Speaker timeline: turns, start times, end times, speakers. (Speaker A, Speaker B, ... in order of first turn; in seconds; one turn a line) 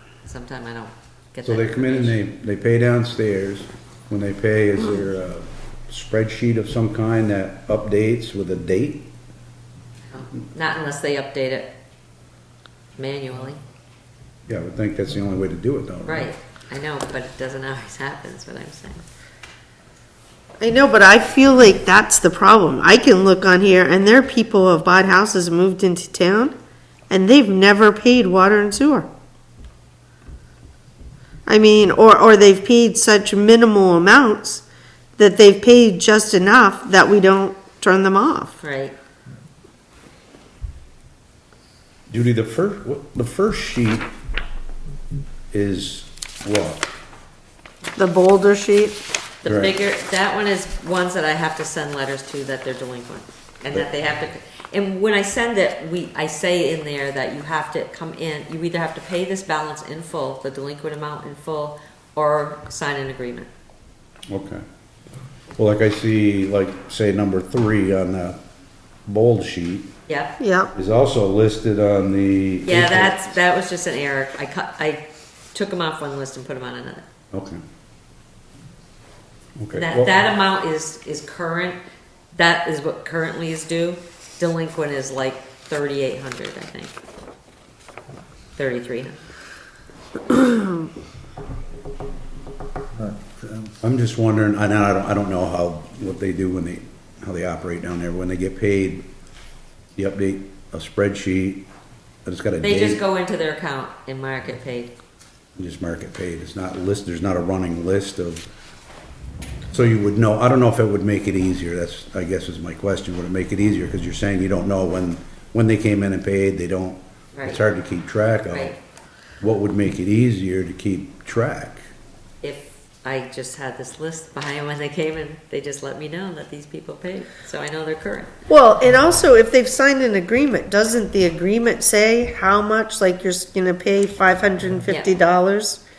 Speaker A: 0.2-2.2
Speaker B: 1.4-9.1
Speaker A: 10.1-11.7
Speaker A: 12.9-13.6
Speaker B: 14.5-16.3
Speaker A: 16.0-19.0
Speaker C: 20.6-26.5
Speaker C: 27.1-29.1
Speaker C: 31.5-34.6
Speaker C: 35.1-38.5
Speaker A: 38.6-39.0
Speaker B: 42.1-44.1
Speaker B: 45.5-46.9
Speaker C: 48.0-49.0
Speaker A: 49.4-63.5
Speaker B: 49.4-49.7
Speaker B: 64.3-64.6
Speaker B: 65.6-68.4
Speaker B: 69.0-69.9
Speaker A: 70.1-70.3
Speaker C: 70.4-70.7
Speaker B: 70.7-73.2
Speaker A: 72.6-77.0
Speaker B: 77.3-77.6
Speaker B: 79.6-80.2
Speaker A: 79.7-81.8
Speaker A: 82.3-86.9
Speaker A: 88.6-89.2
Speaker C: 90.3-90.7
Speaker B: 93.4-99.0
Speaker B: 100.0-101.7
Speaker B: 102.2-103.0
Speaker A: 102.6-104.9
Speaker B: 105.5-108.4
Speaker B: 109.7-118.7
Speaker A: 117.3-117.6
Speaker A: 118.5-118.8
Speaker B: 119.4-121.8
Speaker A: 122.4-128.3
Speaker C: 128.5-135.8
Speaker A: 134.9-135.1